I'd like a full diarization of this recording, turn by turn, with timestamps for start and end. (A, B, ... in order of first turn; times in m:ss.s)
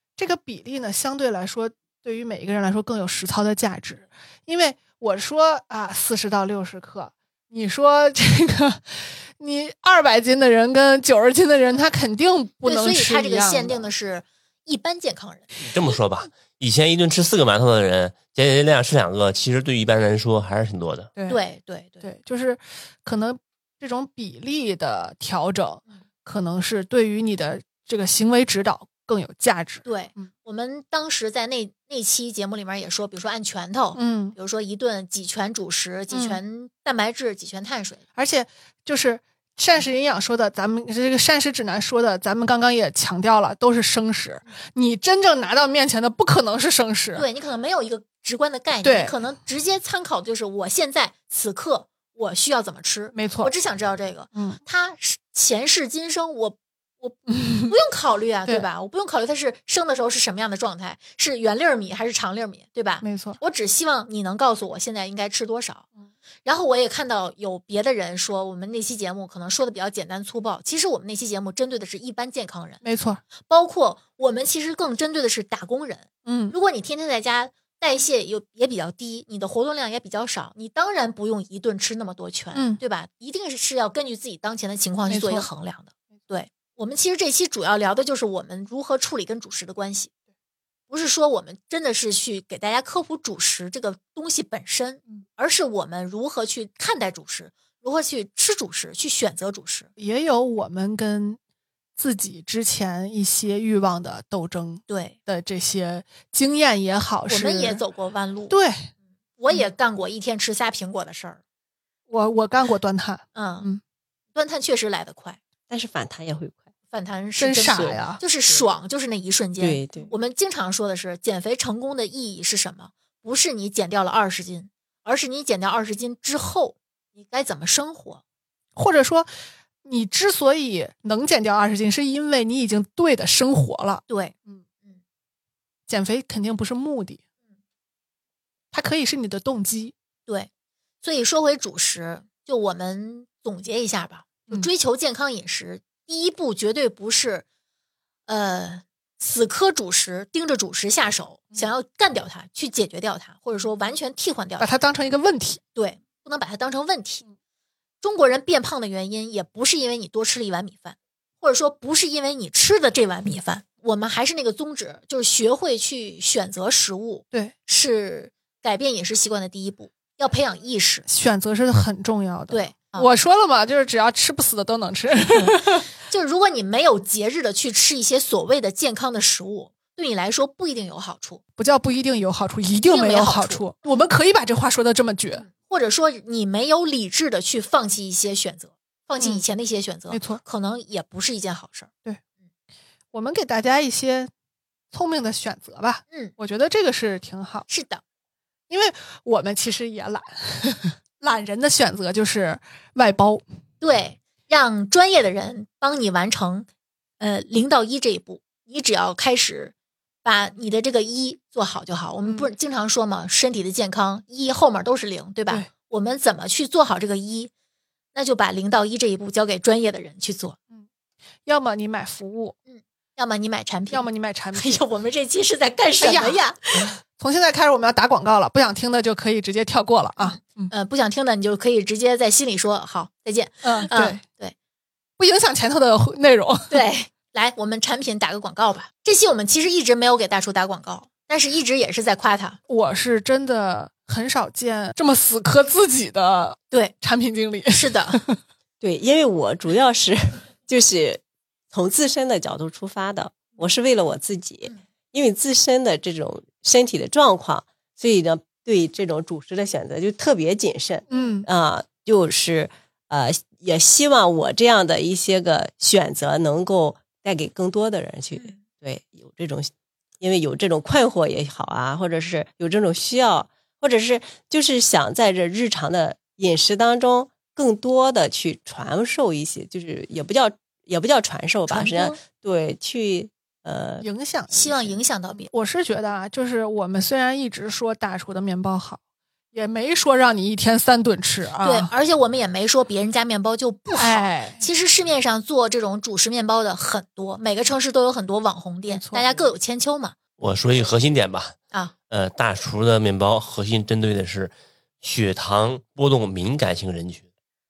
0:00.2-0:13.9 A
0:12.6-0:15.5 B
0:15.6-0:21.1 C
0:21.3-0:22.0 B
0:22.0-0:30.3 A
0:29.8-0:38.0 B
0:33.9-0:34.4 A
0:36.1-0:36.4 A
0:38.1-0:47.3 A
0:47.1-1:05.8 B
0:48.8-0:49.2 A
0:53.1-0:53.5 A
0:54.3-0:54.6 A
0:57.3-0:57.7 A
1:03.0-1:03.4 A
1:06.4-1:12.8 B
1:12.8-1:13.2 A
1:13.5-1:30.1 B
1:16.2-1:16.6 A
1:22.5-1:22.8 A
1:25.1-1:25.5 A
1:30.9-1:39.9 B
1:40.0-1:41.4 A
1:42.0-1:47.8 A
1:44.9-1:45.2 B
1:47.3-1:48.6 B
1:48.5-1:48.9 A
1:49.4-1:51.4 B
1:52.1-1:53.8 A
1:53.3-1:53.7 B
1:54.3-1:55.4 B
1:55.7-1:56.7 D
1:56.9-2:08.2 B
1:57.4-1:58.2 A
1:57.6-1:57.9 D
1:59.6-2:00.1 D
2:08.8-2:09.3 A
2:09.8-2:14.6 A
2:14.1-2:14.3 B
2:15.9-2:17.2 A
2:18.7-2:19.9 A
2:21.0-2:27.4 B
2:28.3-2:34.7 B
2:34.6-2:35.6 A
2:35.7-2:37.2 B
2:38.0-2:51.0 B
2:51.0-2:55.8 A
2:52.5-2:53.1 B
2:55.4-3:01.4 B
3:01.6-3:05.4 A
3:02.8-3:03.6 B
3:05.4-3:11.9 B
3:09.2-3:09.4 A
3:10.1-3:10.4 A
3:13.1-3:14.3 A
3:14.9-3:17.6 A
3:17.7-3:18.0 B
3:18.7-3:23.4 A
3:23.8-3:26.7 B
3:27.2-3:29.7 B
3:30.2-3:37.5 B
3:38.1-3:40.6 B
3:41.4-3:42.6 A
3:42.7-3:46.9 B
3:43.9-3:44.8 A
3:46.0-3:46.4 A
3:47.0-3:50.7 A
3:50.2-3:54.6 B
3:53.6-3:54.2 A
3:55.2-3:56.8 A
3:56.7-4:02.6 B
4:02.7-4:08.4 A
4:07.7-4:08.2 B
4:08.8-4:44.0 D
4:21.1-4:21.5 A
4:41.7-4:42.2 A
4:44.0-4:49.0 A
4:44.5-4:45.5 B
4:49.5-4:51.9 A
4:51.6-5:00.2 B
4:53.9-4:54.6 A
4:58.9-4:59.3 A
5:00.4-5:01.6 C
5:02.1-5:07.3 C